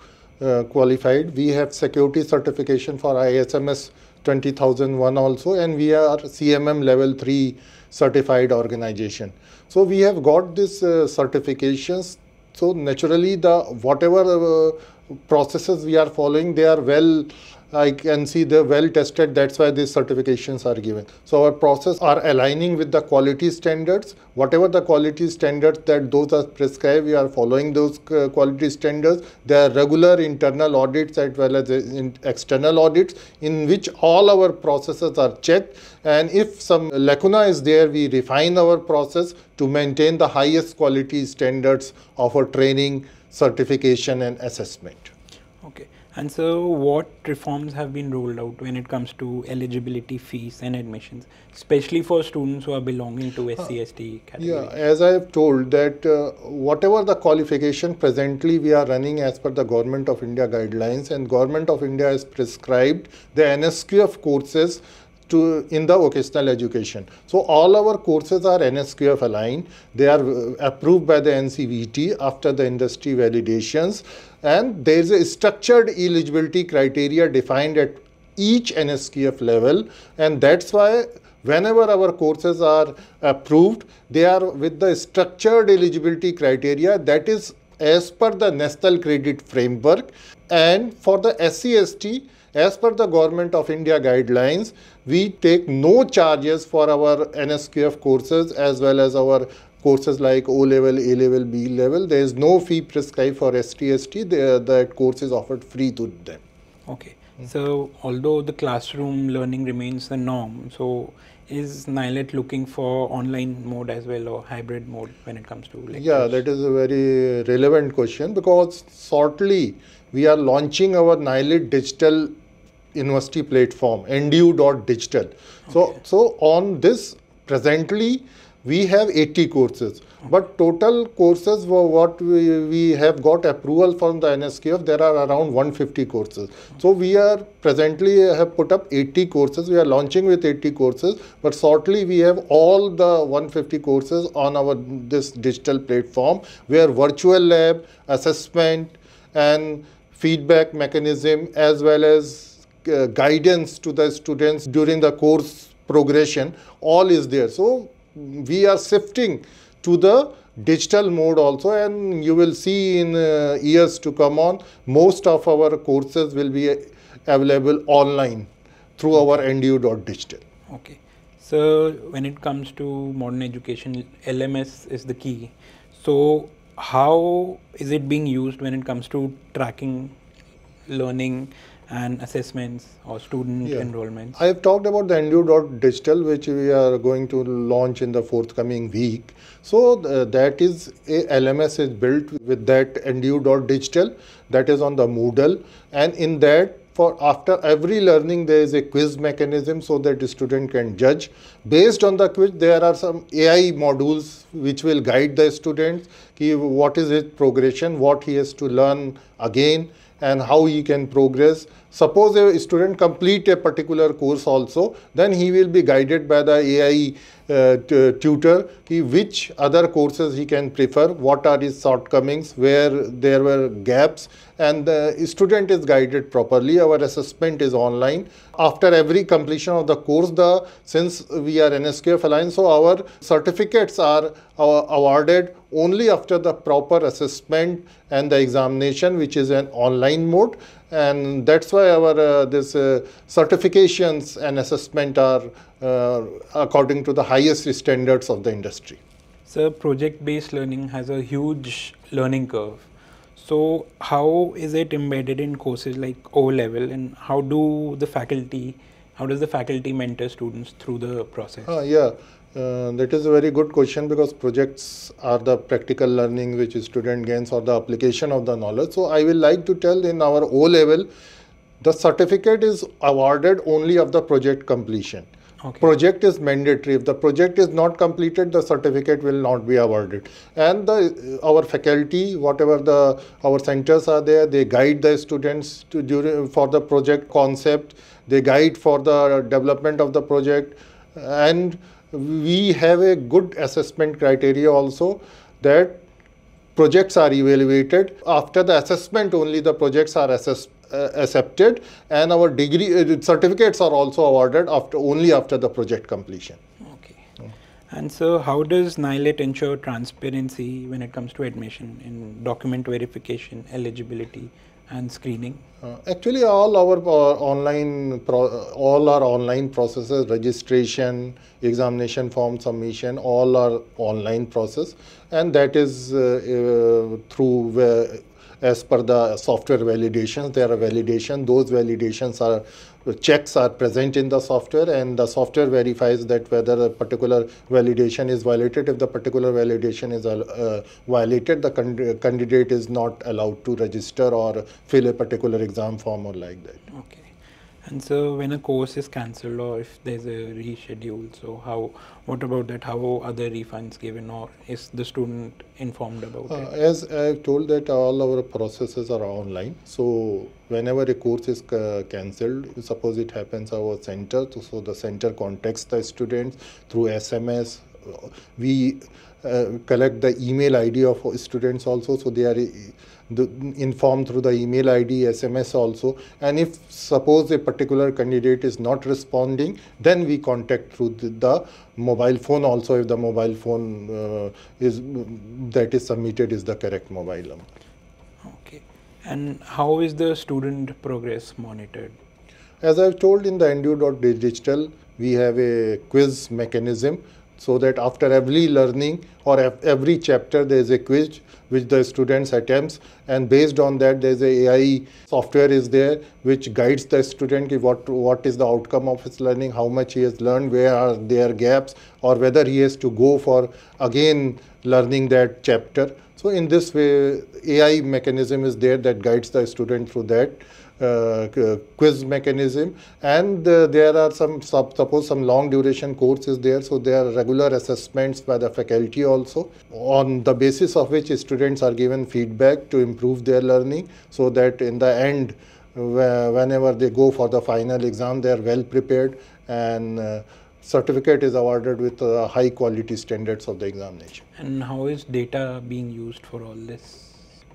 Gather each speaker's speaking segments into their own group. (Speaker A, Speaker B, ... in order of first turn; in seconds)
Speaker A: 0.4-45.1, 54.4-106.4, 115.9-122.3, 122.9-170.4, 183.6-249.0, 261.6-271.1, 271.8-275.3, 275.8-296.0, 296.8-306.6, 315.8-346.8, 356.5-387.6, 392.8-444.4
Speaker B: 45.6-54.7, 106.9-116.4, 170.7-180.1, 180.9-184.3, 249.4-261.7, 275.6-275.9, 306.9-307.2, 307.9-315.6, 346.9-347.3, 347.8-356.7, 388.4-392.1, 444.6-447.4